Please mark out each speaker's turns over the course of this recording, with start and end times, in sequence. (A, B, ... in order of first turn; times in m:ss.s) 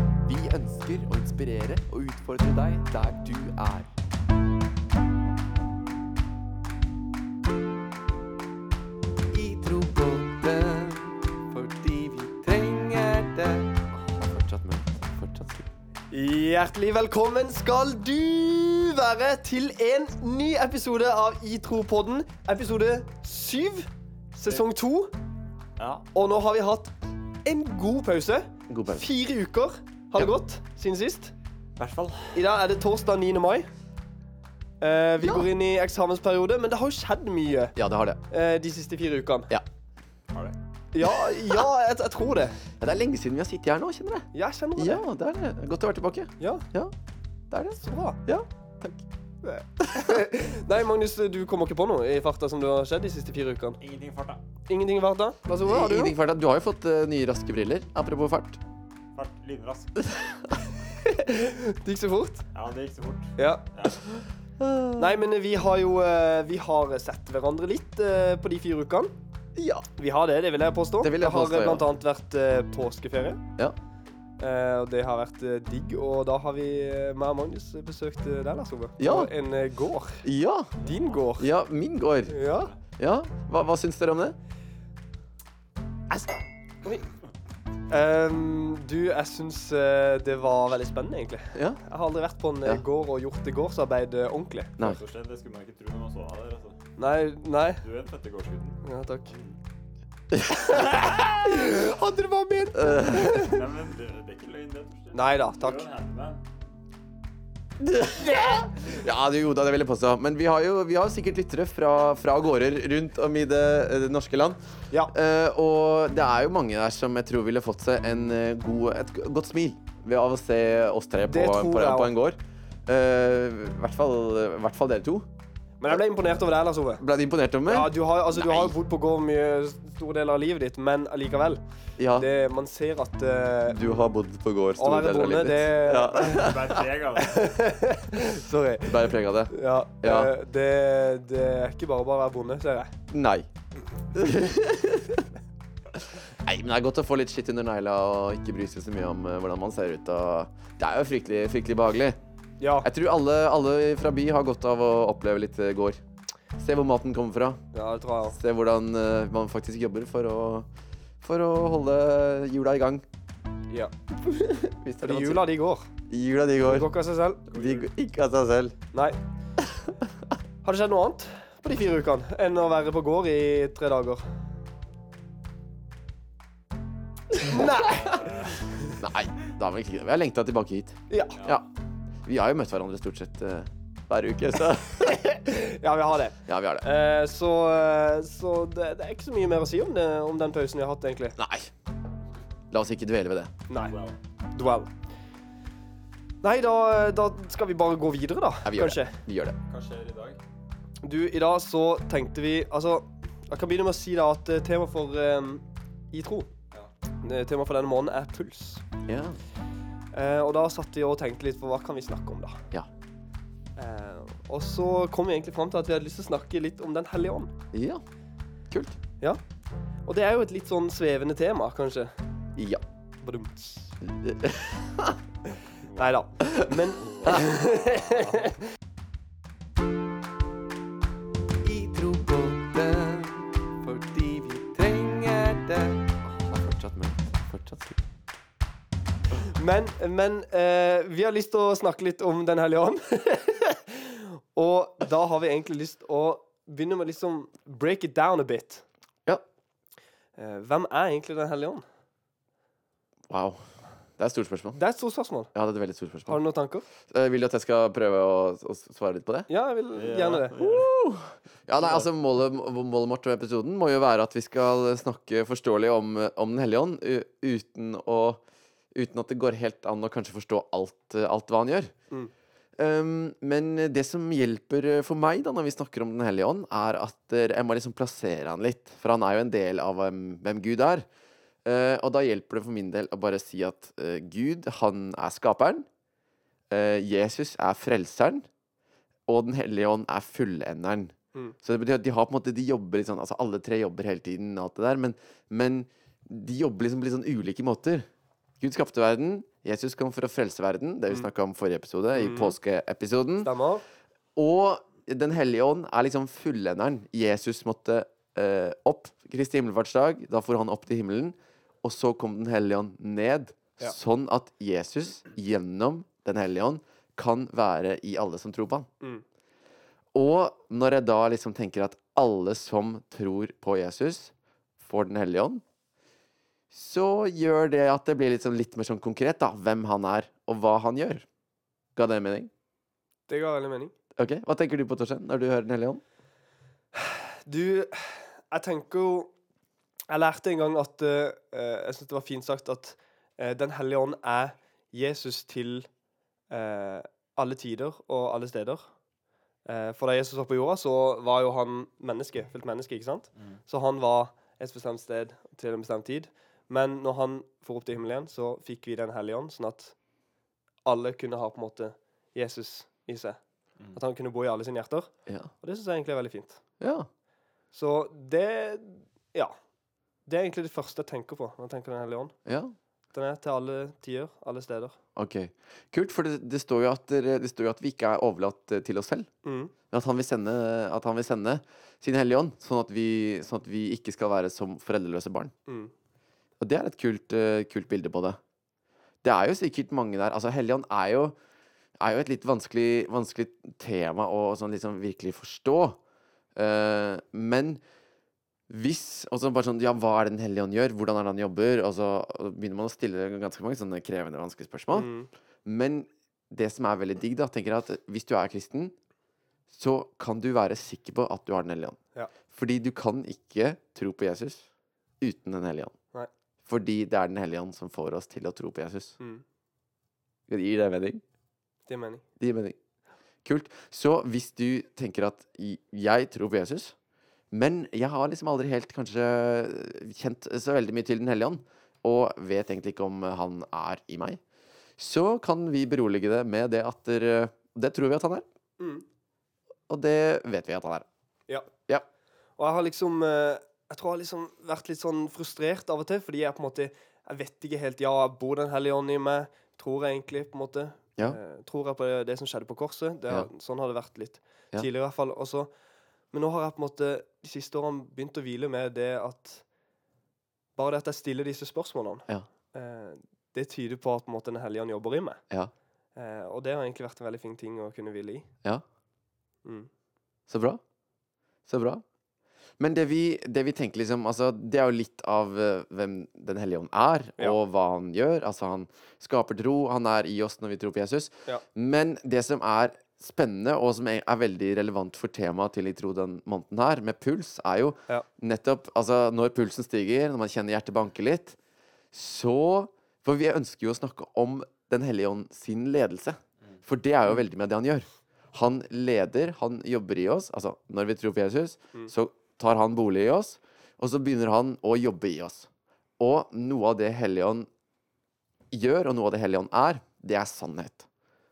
0:00.2-0:03.9 A
0:09.3-0:15.7 A
0:16.1-0:25.1 B
0:25.8-0:26.1 C
0:26.1-0:31.3 B
0:28.7-0:29.0 A
0:31.8-0:32.4 C
0:32.3-0:33.7 B
0:34.8-0:37.8 B
0:35.2-0:35.5 A
0:37.8-0:38.2 A
0:38.3-0:39.5 B
0:40.9-0:42.6 B
0:41.0-0:41.6 A
0:42.8-0:46.9 A
0:44.3-0:45.1 B
0:46.4-0:46.7 B
0:47.5-0:50.3 A
0:47.8-0:48.2 B
0:49.9-0:53.8 B
0:53.8-0:54.4 C
0:54.7-0:56.2 B
0:55.6-0:58.6 A
0:59.2-1:00.0 C
1:00.1-1:00.7 A
1:01.2-1:02.4 B
1:02.5-1:04.0 C
1:03.4-1:04.2 B
1:04.6-1:05.2 A
1:05.0-1:09.1 B
1:09.6-1:09.9 A
1:10.0-1:13.4 B
1:11.0-1:11.8 A
1:14.4-1:20.3 B
1:19.0-1:19.3 A
1:20.2-1:20.8 A
1:20.8-1:21.5 B
1:20.8-1:21.2 C
1:21.4-1:22.4 A
1:22.3-1:22.7 B
1:22.4-1:22.8 C
1:23.0-1:24.4 A
1:27.9-1:34.9 B
1:31.6-1:31.8 A
1:34.8-1:36.8 C
1:37.0-1:37.8 B
1:37.8-1:39.6 C
1:38.8-1:39.4 B
1:40.3-1:40.8 A
1:40.7-1:43.6 B
1:40.7-1:41.4 C
1:42.7-1:43.6 A
1:43.1-1:46.4 C
1:45.1-1:45.8 B
1:47.8-2:05.3 A
2:01.3-2:02.1 B
2:05.8-2:07.0 B
2:07.0-2:08.7 A
2:07.7-2:14.1 B
2:12.0-2:12.3 A
2:13.7-2:16.9 A
2:14.8-2:16.5 B
2:16.1-2:17.6 C
2:17.2-2:22.9 B
2:18.8-2:20.3 A
2:23.1-2:23.5 A
2:24.1-2:25.2 A
2:25.9-2:32.2 A
2:32.6-2:32.9 B
2:32.8-2:36.0 A
2:36.6-2:37.6 A
2:37.7-2:38.4 B
2:38.3-2:40.7 A
2:41.2-2:43.0 A
2:44.2-2:45.4 A
2:45.0-2:45.9 B
2:46.1-2:46.9 A
2:46.6-2:47.8 B
2:47.5-2:48.8 A
2:49.6-2:50.1 A
2:50.6-2:54.2 B
2:57.3-2:58.8 B
2:58.0-2:58.6 C
2:58.9-3:01.7 A
3:01.1-3:01.4 B
3:01.4-3:01.6 C
3:02.2-3:05.5 A
3:05.4-3:11.4 B
3:06.5-3:06.9 A
3:11.4-3:11.7 A
3:12.7-3:13.5 A
3:13.7-3:14.0 B
3:13.8-3:14.2 C
3:14.5-3:14.9 B
3:16.4-3:19.2 B
3:18.6-3:19.6 A
3:19.7-3:20.4 C
3:21.0-3:26.5 B
3:27.2-3:28.8 B
3:29.1-3:29.4 A
3:30.1-3:32.6 B
3:33.8-3:37.5 B
3:37.7-3:38.0 A
3:38.7-3:39.0 A
3:40.1-3:42.1 B
3:42.6-3:42.8 A
3:43.2-3:44.0 B
3:44.0-3:45.2 A
3:45.8-3:46.2 C
3:46.0-3:48.6 B
3:46.5-3:46.7 A
3:47.0-3:47.3 C
3:51.6-3:58.0 A
3:59.4-4:08.9 B
4:10.4-4:11.8 B
4:13.3-4:13.6 A
4:14.2-4:14.8 A
4:14.8-4:15.5 B
4:15.5-4:16.4 A
4:16.3-4:16.9 B
4:17.1-4:19.5 A
4:19.5-4:20.6 B
4:20.0-4:20.9 C
4:20.6-4:28.4 A
4:29.0-4:31.9 A
4:32.8-4:41.1 A
4:41.6-4:45.9 A
4:46.7-4:48.4 A
4:49.3-4:58.0 A
4:58.6-5:03.5 A
5:02.2-5:02.6 B
5:03.4-5:03.8 B
5:04.4-5:18.9 A
5:20.1-5:25.6 A
5:26.7-5:31.3 A
5:32.0-5:32.5 A
5:33.3-5:33.9 B
5:34.2-5:36.0 A
5:36.9-5:39.3 B
5:40.1-5:45.9 B
5:46.5-5:48.9 B
5:49.7-6:00.0 B
6:00.8-6:03.4 B
6:03.9-6:06.6 B
6:06.8-6:07.1 A
6:07.7-6:09.6 B
6:10.3-6:12.4 B
6:12.5-6:12.7 A
6:13.1-6:15.0 B
6:15.2-6:19.3 A
6:19.4-6:19.7 B
6:19.9-6:25.5 A
6:25.7-6:25.9 B
6:26.6-6:28.4 A
6:29.2-6:31.4 A
6:32.0-6:36.0 A
6:36.6-6:37.8 A
6:38.7-6:45.1 A
6:44.9-6:45.3 B
6:45.6-6:49.0 A
6:49.7-6:54.7 A
6:55.2-6:56.0 A
6:56.6-6:59.2 A
7:00.5-7:01.2 A
7:01.9-7:02.2 B
7:02.4-7:02.8 A
7:03.4-7:07.0 A
7:07.5-7:14.4 A
7:15.0-7:18.4 A
7:18.8-7:19.0 B
7:19.9-7:21.1 A
7:22.6-7:35.7 B
7:36.3-7:39.6 B
7:40.8-7:45.4 B
7:46.2-7:48.5 B
7:49.6-7:49.9 B
7:50.5-7:50.8 A
7:51.7-7:52.0 A
7:52.8-8:11.6 A
8:12.1-8:27.7 A
8:28.7-8:31.1 A